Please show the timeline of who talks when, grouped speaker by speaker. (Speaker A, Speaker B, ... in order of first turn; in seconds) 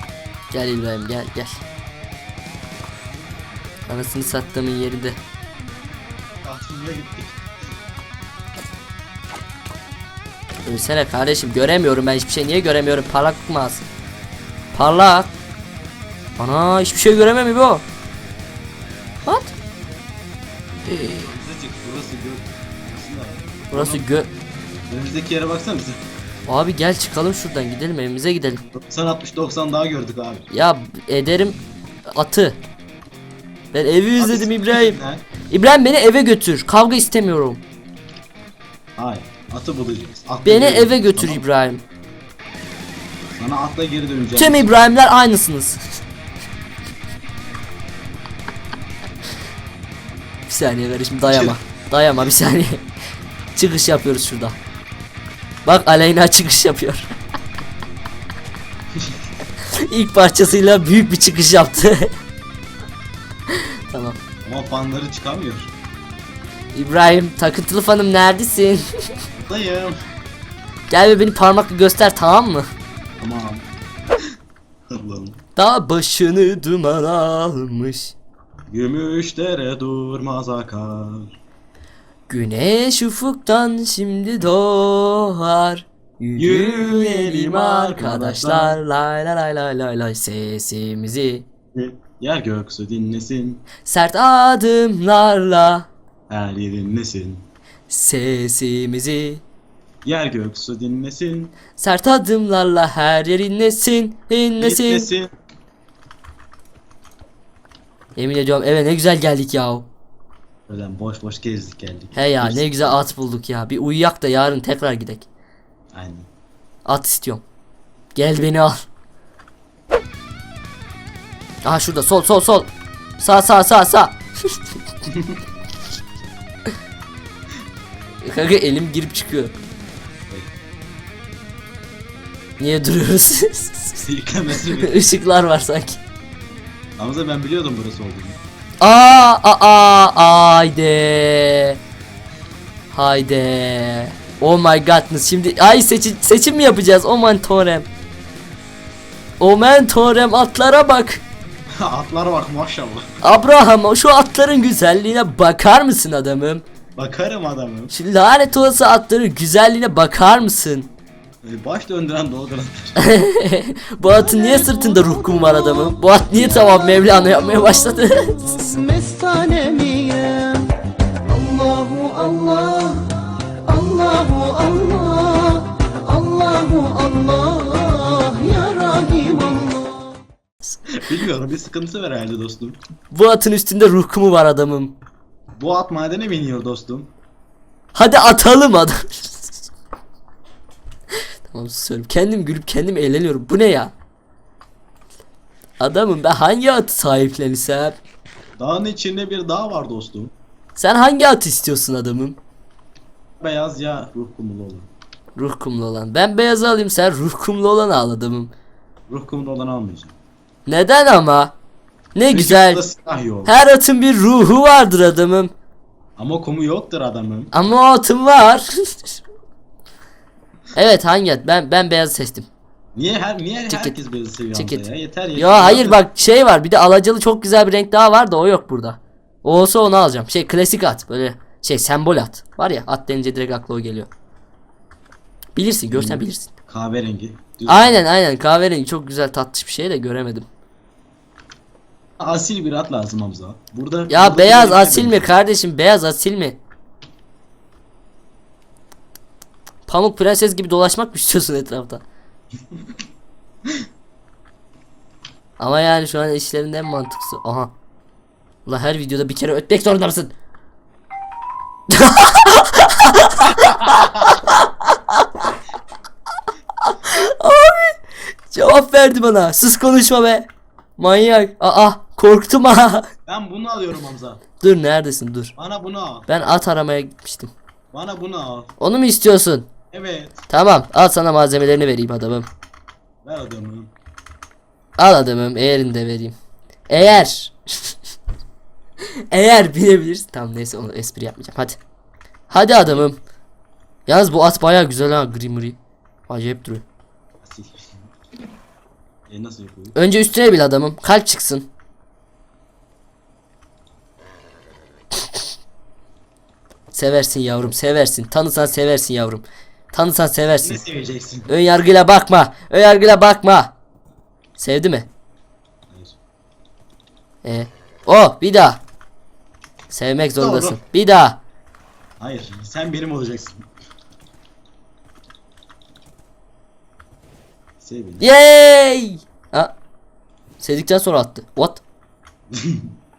Speaker A: 0.5-1.6, 3.9-5.2, 10.7-13.8, 14.7-15.3, 16.4-17.8, 19.2-19.5, 20.9-21.3, 23.7-24.3, 26.5-28.6, 30.5-32.6, 33.7-35.0, 35.5-37.6, 40.4-41.8, 44.4-45.8, 50.5-52.8, 53.5-54.6, 55.6-57.1, 59.8-62.1, 63.5-64.2, 66.7-68.9, 70.9-72.7, 75.5-78.1, 82.3-91.4, 93.8-95.9, 97.9-99.4, 101.8-105.1, 108.2-109.8, 112.1-115.3, 116.8-117.4, 118.1-118.8, 121.6-124.5, 128.2-129.5, 132.6-134.0, 134.8-136.0, 138.8-141.8, 142.9-147.9, 149.4-151.2, 153.2-156.6, 157.9-160.9, 163.0-168.5, 183.1-184.9, 187.9-189.6, 191.5-193.9, 195.8-198.0, 200.8-202.4, 205.3-208.5, 210.7-211.5, 212.1-212.8, 213.4-215.5, 217.5-219.2, 220.7-222.5, 223.7-224.0, 224.5-234.1, 235.6-236.5, 237.7-240.5, 244.1-246.6, 249.9-252.0, 255.6-257.7, 258.6-260.3, 261.9-265.5, 266.8-268.0, 268.5-273.1, 274.6-275.5, 276.3-277.5, 278.8-279.7, 280.5-282.5, 285.0-286.4, 286.9-287.9, 289.3-291.8, 292.5-293.2, 294.1-295.8, 296.3-296.8, 299.9-301.7, 306.9-310.8, 311.5-313.7, 314.6-315.1, 317.4-318.8, 319.9-321.4, 328.2-329.7, 330.6-331.8
Speaker B: 6.4-7.4, 21.2-24.1, 24.9-26.0, 28.7-30.5, 34.2-35.2, 39.0-41.4, 43.3-44.7, 51.3-51.5, 58.9-59.2, 64.4-65.7, 69.3-70.0, 73.2-73.7, 74.9-75.4, 78.7-81.4, 86.3-88.8, 91.7-93.6, 96.3-97.5, 100.0-101.5, 104.6-105.3, 110.7-112.9, 115.9-116.3, 125.1-125.4, 134.0-134.9, 137.0-138.4, 151.7-153.1, 156.9-157.9, 161.4-163.0, 180.9-182.8, 185.5-187.1, 198.6-200.3, 203.4-204.9, 209.1-210.1, 212.3-213.5, 216.2-217.5, 222.9-226.0, 235.9-238.0, 242.2-245.3, 273.2-274.4, 275.6-276.3, 277.9-278.7, 279.9-280.4, 283.2-283.9, 297.4-297.9, 299.3-299.9, 310.6-311.5, 315.9-316.1, 320.4-320.8, 322.2-323.6, 327.8-328.3, 332.5-332.9
Speaker C: 164.2-165.9, 166.5-170.7, 171.3-173.1, 173.7-180.2